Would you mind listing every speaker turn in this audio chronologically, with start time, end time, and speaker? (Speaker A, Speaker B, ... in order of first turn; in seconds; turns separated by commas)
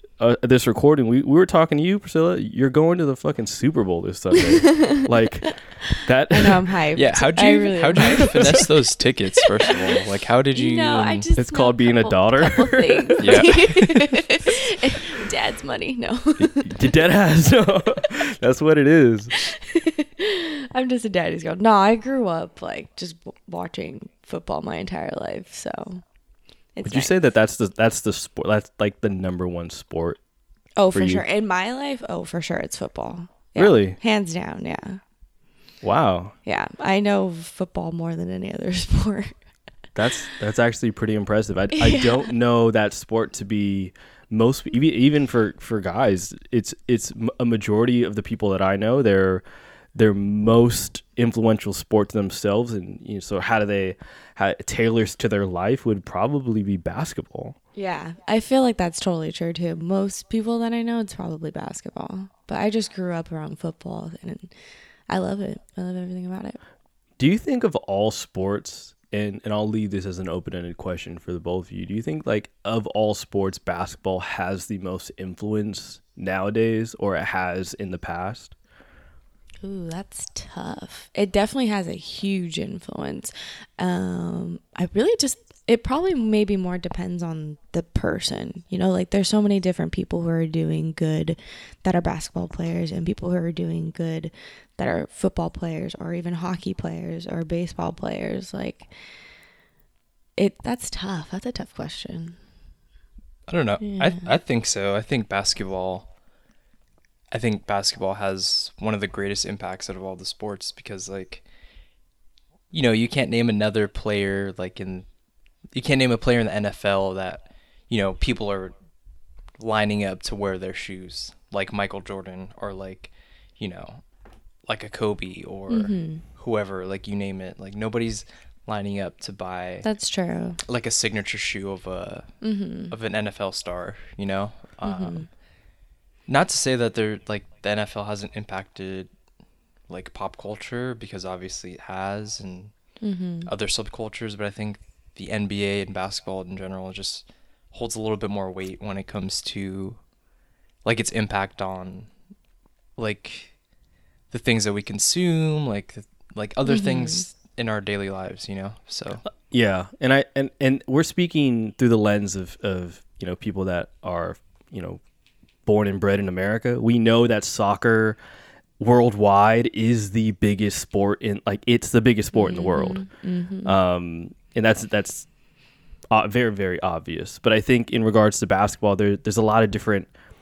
Speaker A: 0.2-6.6, Speaker B: 4.4-5.0, Speaker B: 6.3-8.6, Speaker C: 7.0-11.3, Speaker B: 10.6-16.8, Speaker A: 11.3-13.6, Speaker C: 13.2-13.7, Speaker A: 16.4-19.3, Speaker B: 19.4-26.0, Speaker B: 26.8-27.1, Speaker A: 26.8-30.2, Speaker B: 30.8-35.0, Speaker A: 30.9-31.2, Speaker A: 33.6-34.0, Speaker A: 35.8-36.4, Speaker B: 36.4-39.3, Speaker A: 39.9-49.4, Speaker B: 41.8-42.3, Speaker A: 49.9-57.6, Speaker B: 57.8-64.5, Speaker B: 65.1-66.6, Speaker A: 67.2-78.5, Speaker B: 79.6-98.9, Speaker B: 100.4-102.4, Speaker C: 103.5-106.1, Speaker B: 103.8-104.3, Speaker C: 107.3-111.4, Speaker C: 112.7-115.1, Speaker C: 115.7-118.7, Speaker C: 119.6-124.0, Speaker C: 124.7-129.8, Speaker B: 125.7-126.2, Speaker B: 129.8-130.6, Speaker C: 130.6-132.4, Speaker B: 132.4-132.9, Speaker C: 132.9-135.3, Speaker B: 134.8-135.3, Speaker C: 136.3-139.1, Speaker C: 139.9-142.7, Speaker B: 143.0-143.5, Speaker C: 143.5-150.0, Speaker C: 150.8-152.1, Speaker C: 153.0-153.5, Speaker C: 154.3-159.2, Speaker B: 156.7-157.2, Speaker A: 159.4-165.0, Speaker A: 165.7-168.2, Speaker A: 168.8-173.0, Speaker B: 172.3-173.8, Speaker A: 173.7-175.3, Speaker A: 176.1-180.1